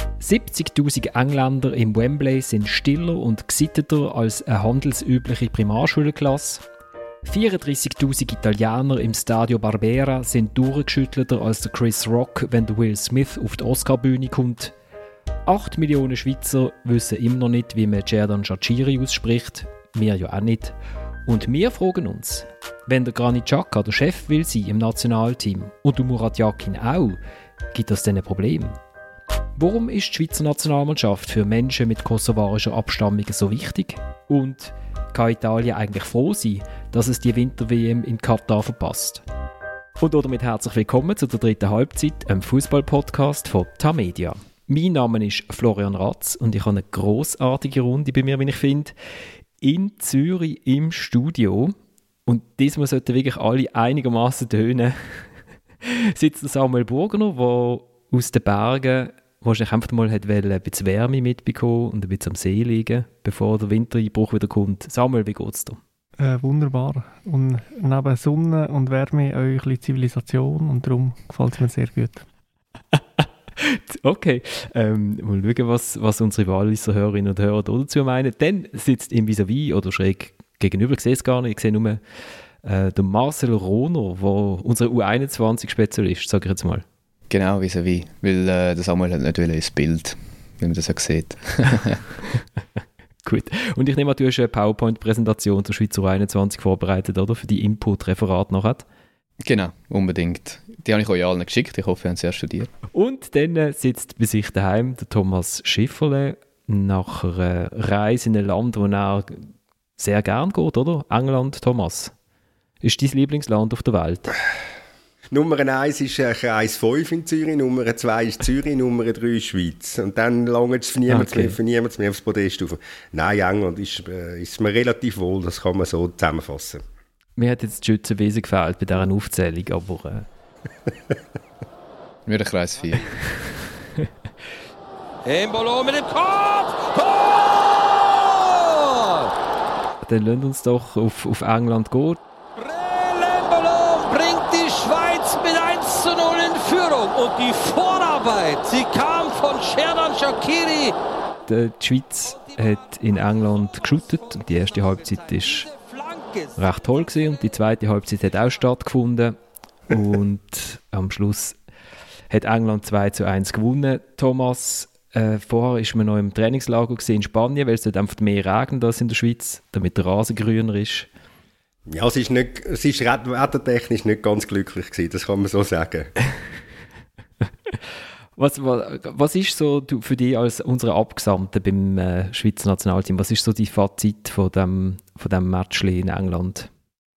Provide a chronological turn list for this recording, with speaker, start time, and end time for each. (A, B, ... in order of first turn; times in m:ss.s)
0:00.2-0:06.6 A
0:07.3-0:14.7 A
0:15.5-0:20.8 A
0:21.3-0:27.2 A
0:27.7-0:28.8 A
0:29.6-0:39.2 A
0:40.0-0:48.9 A
0:49.6-0:51.8 A
0:52.3-0:55.3 A
0:55.8-1:05.8 A
1:06.2-1:12.2 B
1:13.2-1:22.0 A
1:22.6-1:26.8 A
1:27.3-1:32.2 C
1:33.3-1:38.8 A
1:39.4-1:42.7 C
1:42.9-1:52.1 A
1:52.8-1:54.4 A
1:55.3-2:06.8 D
2:01.1-2:01.6 A
2:07.4-2:10.3 A
2:12.3-2:13.1 C
2:15.2-2:19.3 E
2:20.1-2:22.2 A
2:22.6-2:30.9 E
2:31.5-2:35.7 A
2:35.6-2:36.6 E
2:36.6-2:39.4 A
2:39.9-2:41.6 A
2:42.3-2:51.1 A
2:51.9-2:56.1 D
2:58.4-3:06.7 A